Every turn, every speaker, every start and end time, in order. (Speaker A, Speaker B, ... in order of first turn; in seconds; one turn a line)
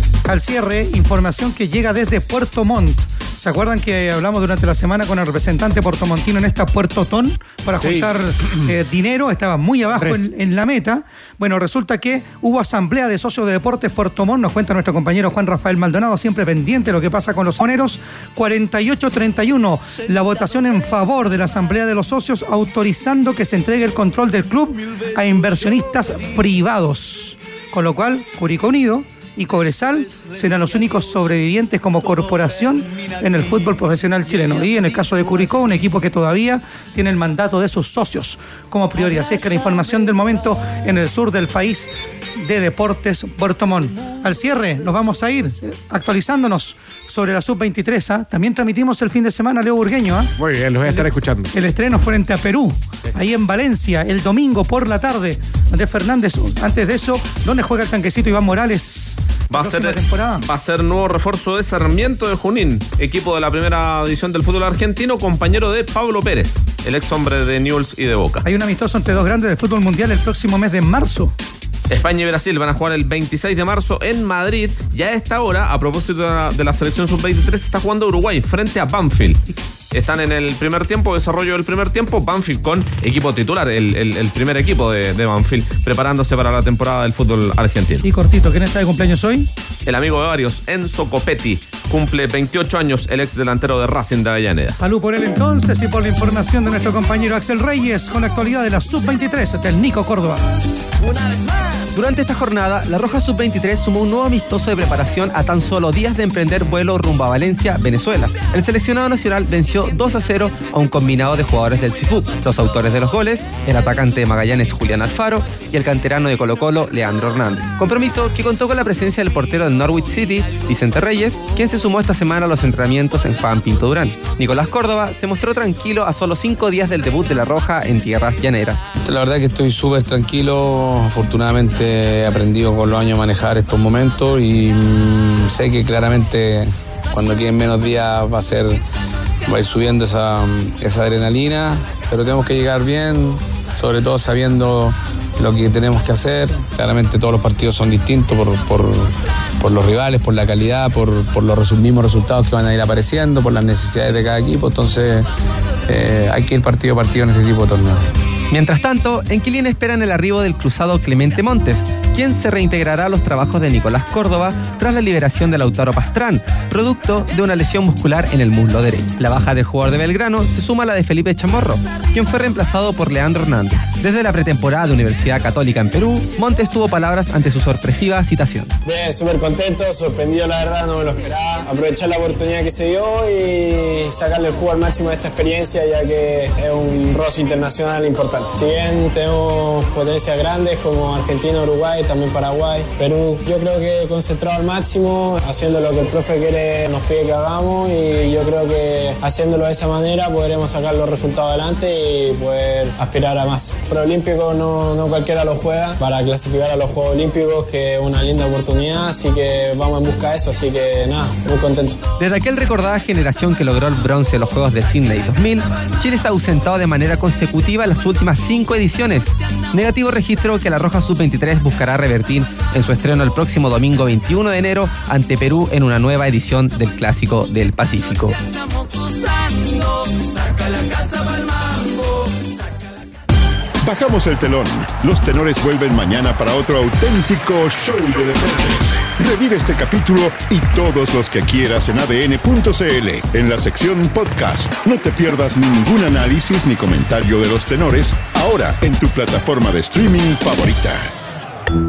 Speaker A: 0.2-50.3
Speaker B: 7.8-8.7
Speaker B: 10.0-10.3
Speaker B: 50.4-51.5
Speaker A: 50.9-60.5
Speaker C: 59.5-68.5
Speaker A: 68.4-71.3
Speaker C: 71.9-88.0
Speaker A: 88.0-89.5
Speaker C: 89.8-94.8
Speaker A: 94.7-100.4
Speaker D: 101.9-128.8
Speaker E: 129.0-138.8
Speaker E: 139.5-155.3
Speaker E: 155.9-158.1
Speaker D: 158.5-178.7
Speaker F: 178.8-212.0
Speaker D: 212.2-228.4
Speaker G: 233.8-251.1